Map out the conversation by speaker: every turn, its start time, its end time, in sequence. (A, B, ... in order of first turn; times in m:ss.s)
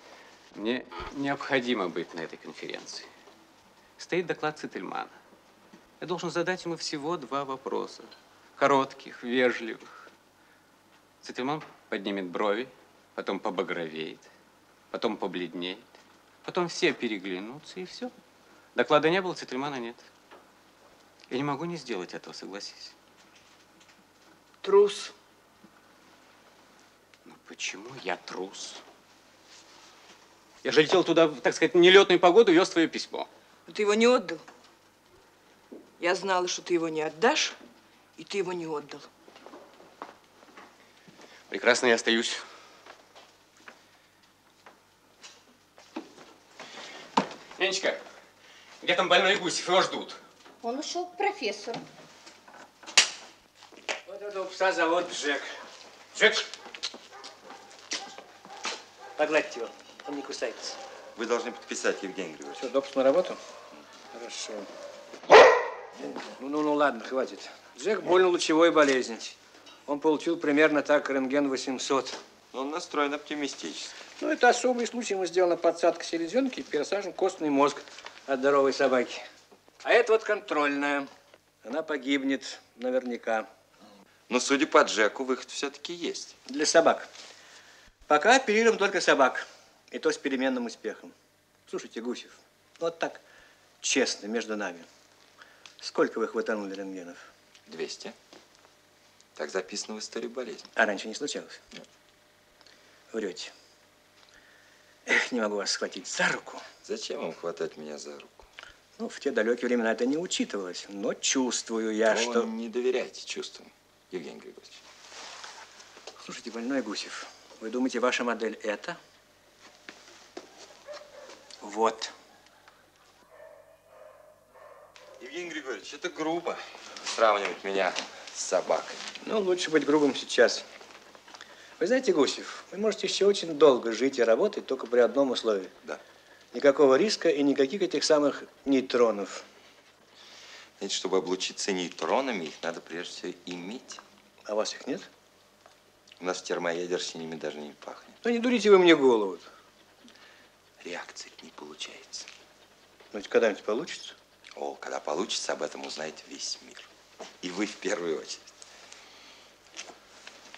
0:00.5-0:03.1 A
0:04.0-0:05.2 A
0:06.0-0:10.0 A
0:11.2-0:14.3 A
0:14.9-0:15.9 A
0:16.4-0:18.1 A
0:18.7-0:20.1 A
0:21.3-0:22.9 A
0:24.6-0:25.1 B
0:27.2-0:28.8 A
0:30.6-0:33.3 A
0:33.7-0:34.4 B
0:36.0-0:37.6 B
0:38.2-0:39.1 B
0:41.5-0:42.4 A
0:47.6-0:48.0 A
0:48.8-0:50.2 A
0:54.1-0:55.5 C
0:56.1-0:56.5 C
0:59.2-1:00.8 C
1:01.2-1:02.7 D
1:02.6-1:03.4 C
1:04.1-1:04.7 C
1:06.2-1:09.4 C
1:09.9-1:12.2 C
1:12.5-1:14.0 D
1:14.2-1:19.2 C
1:19.8-1:21.1 C
1:21.6-1:23.5 C
1:24.3-1:26.4 D
1:26.5-1:27.1 C
1:28.1-1:31.1 C
1:31.7-1:33.2 C
1:33.8-1:34.9 C
1:35.8-1:37.2 C
1:37.7-1:38.1 D
1:39.4-1:40.7 D
1:40.7-1:41.6 C
1:43.1-1:43.5 C
1:45.0-1:46.6 C
1:46.8-1:48.5 D
1:49.0-1:52.5 C
1:52.1-1:54.8 D
1:56.2-1:59.0 C
2:01.6-2:02.1 C
2:05.2-2:09.0 D
2:09.2-2:10.6 C
2:11.8-2:15.7 C
2:16.5-2:19.4 C
2:20.8-2:24.0 D
2:24.4-2:25.1 C
2:26.2-2:28.2 D
2:28.2-2:29.5 C
2:30.8-2:32.3 D
2:33.1-2:34.1 C
2:34.6-2:36.9 D
2:37.4-2:38.5 D